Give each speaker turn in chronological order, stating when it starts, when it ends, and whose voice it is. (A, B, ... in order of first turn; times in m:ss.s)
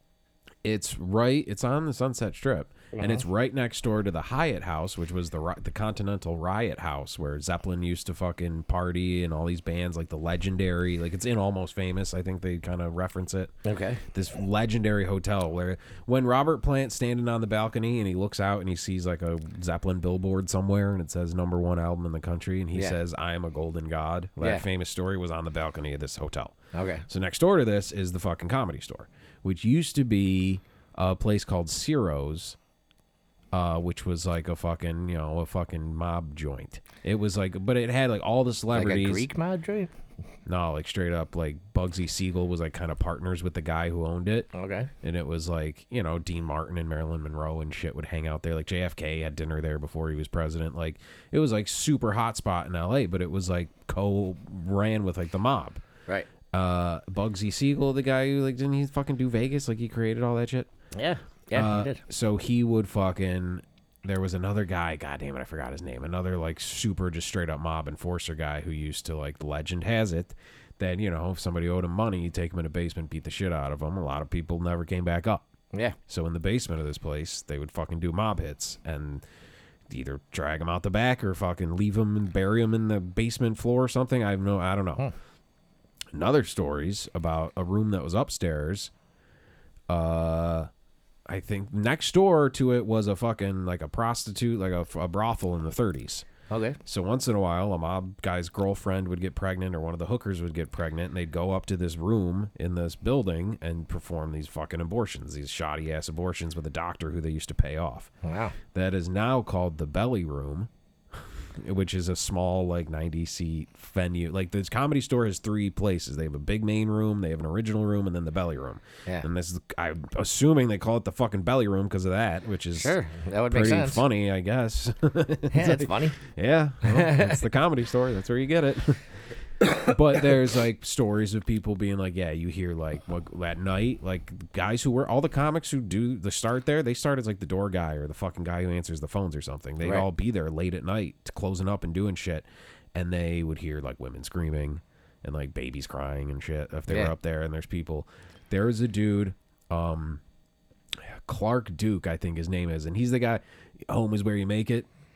0:00.6-0:13.6 A
0:03.0-0:03.2 B
0:13.6-0:14.0 B
0:14.1-0:26.6 A
0:24.4-0:24.6 B
0:26.7-0:27.1 B
0:27.1-0:32.6 A
0:33.5-0:39.3 A
0:38.7-0:39.9 B
0:40.5-0:44.5 A
0:44.5-0:44.9 B
0:45.0-0:55.8 A
0:56.5-1:00.7 A
1:00.9-1:02.0 B
1:01.5-1:15.5 A
1:16.1-1:19.2 A
1:19.9-1:25.0 A
1:26.1-1:28.9 A
1:29.9-1:30.7 A
1:31.3-1:36.3 A
1:36.5-1:36.8 B
1:36.8-1:48.1 A
1:48.2-1:48.6 B
1:48.7-2:03.0 A
2:02.8-2:04.0 B
2:03.5-2:09.1 A
2:05.5-2:06.2 B
2:06.8-2:07.4 B
2:09.6-2:30.2 A
2:26.9-2:27.1 B
2:30.9-2:34.9 A